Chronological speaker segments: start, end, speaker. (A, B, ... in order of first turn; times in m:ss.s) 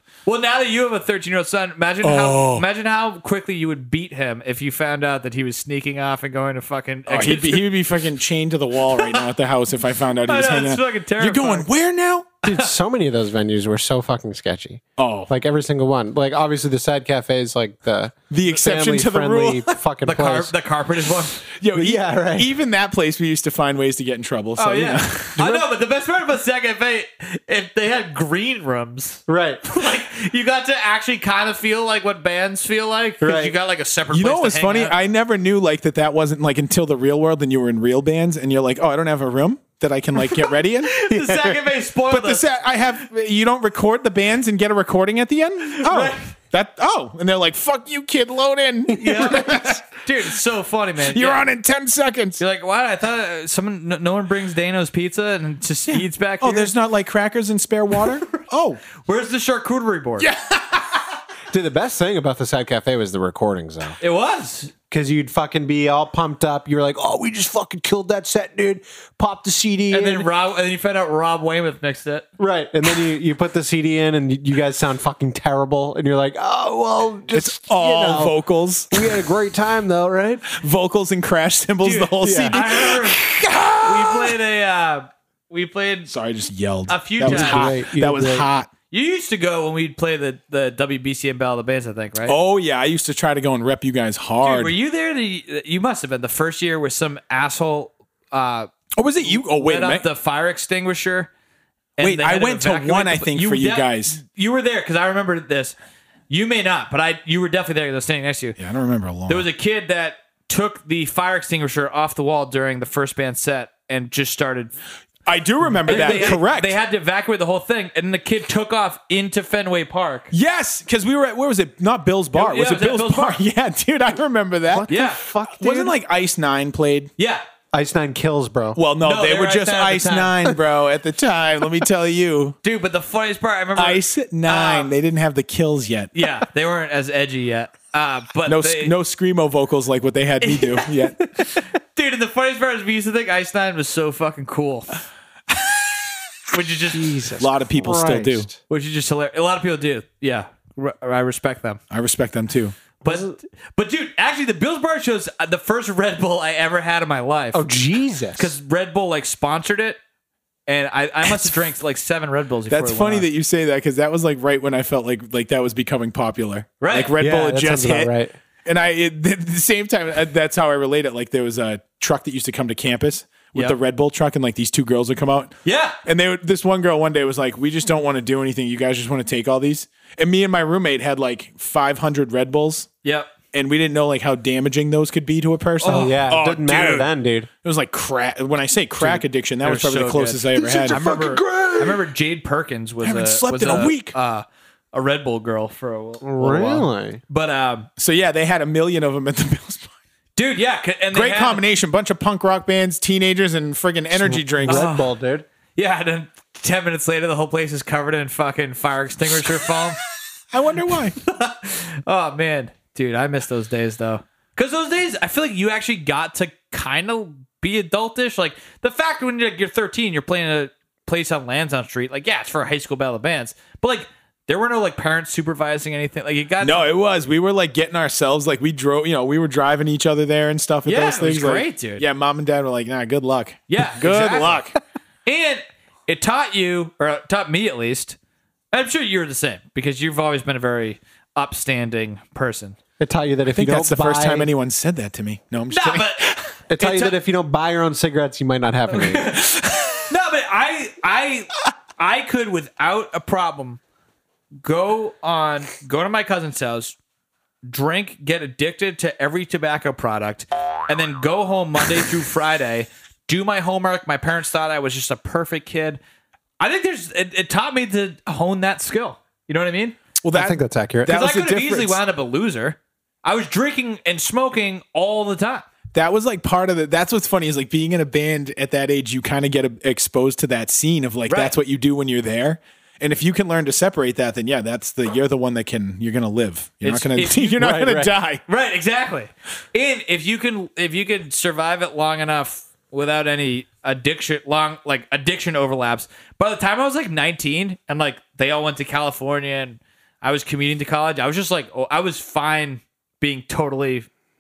0:00.3-0:07.7 A
0:02.0-0:02.7 B
0:07.1-0:12.4 B
0:10.3-0:11.7 A
0:12.5-0:20.5 C
0:15.0-0:15.3 B
0:18.3-0:19.7 B
0:20.1-0:21.4 A
0:21.6-0:25.6 B
0:21.7-0:22.5 C
0:24.6-0:35.0 A
0:29.3-0:29.6 C
0:33.2-0:33.6 C
0:34.1-0:41.0 B
0:40.9-0:42.4 A
0:41.1-0:41.6 C
0:42.1-0:50.0 B
0:45.8-0:46.3 A
0:48.9-0:51.4 A
0:49.1-0:49.5 C
0:51.1-0:52.4 B
0:52.4-0:56.7 A
0:55.9-0:58.8 B
0:59.0-1:00.3 A
1:00.2-1:01.0 B
1:01.5-1:04.0 C
1:04.0-1:04.7 A
1:04.9-1:10.3 C
1:09.9-1:12.3 A
1:12.4-1:18.4 C
1:17.3-1:19.2 B
1:18.9-1:20.5 C
1:20.5-1:24.4 B
1:21.8-1:23.3 A
1:22.2-1:22.6 C
1:23.8-1:26.1 A
1:26.1-1:28.7 B
1:26.9-1:27.7 A
1:27.2-1:28.5 C
1:28.9-1:32.4 A
1:32.3-1:34.8 B
1:34.4-1:38.7 A
1:39.0-1:40.1 B
1:39.2-1:41.3 A
1:42.0-1:45.8 A
1:42.0-1:44.2 B
1:46.3-1:48.6 A
1:48.6-1:49.5 B
1:49.3-1:54.7 A
1:55.3-1:56.8 B
1:55.8-1:56.4 C
1:55.8-2:00.3 A
2:00.3-2:07.1 B
2:02.3-2:03.4 A
2:04.7-2:06.0 C
2:04.9-2:05.2 A
2:07.2-2:07.4 A
2:07.7-2:08.8 C
2:08.8-2:12.6 B
2:09.0-2:10.4 A
2:12.6-2:14.9 A
2:13.8-2:16.1 B
2:16.2-2:18.9 A
2:18.5-2:21.2 B
2:20.4-2:21.0 A
2:21.5-2:25.0 A
2:26.5-2:27.0 A
2:26.9-2:28.6 C
2:27.4-2:28.5 B
2:28.7-2:31.8 A
2:31.9-2:32.8 B
2:33.0-2:37.7 A
2:33.0-2:33.4 C
2:37.5-2:38.5 C
2:38.4-2:40.0 A
2:40.7-2:43.3 A
2:42.7-2:48.1 B
2:46.8-2:47.1 A
2:47.2-2:48.3 C
2:48.6-3:02.9 B
2:55.6-2:56.0 A
3:03.0-3:03.3 A
3:03.5-3:07.1 B
3:05.8-3:06.1 A
3:05.8-3:07.5 C
3:07.6-3:11.5 B
3:09.6-3:17.9 A
3:10.5-3:11.8 C
3:13.0-3:14.2 B
3:16.2-3:17.2 C
3:18.0-3:19.9 B
3:20.4-3:21.6 A
3:21.1-3:24.9 B
3:24.1-3:25.5 C
3:24.7-3:25.1 A
3:25.8-3:30.0 A
3:30.5-3:31.2 B
3:31.2-3:46.9 A
3:46.6-3:54.8 B
3:50.9-3:52.0 A
3:53.7-3:54.7 A
3:55.3-3:58.2 A
3:58.7-4:02.8 A
4:03.0-4:04.5 C
4:03.5-4:06.5 B
4:05.7-4:06.3 A
4:06.7-4:09.3 C
4:06.8-4:07.2 A
4:08.9-4:09.4 A
4:09.4-4:10.0 B
4:10.1-4:13.8 A
4:14.6-4:17.0 A
4:17.7-4:26.0 A
4:26.6-4:30.0 A
4:30.2-4:32.0 B
4:30.3-4:31.2 C
4:31.1-4:35.6 A
4:35.9-4:48.4 B
4:41.3-4:41.5 A
4:46.8-4:47.8 A
4:47.6-4:48.1 C
4:48.5-5:04.1 A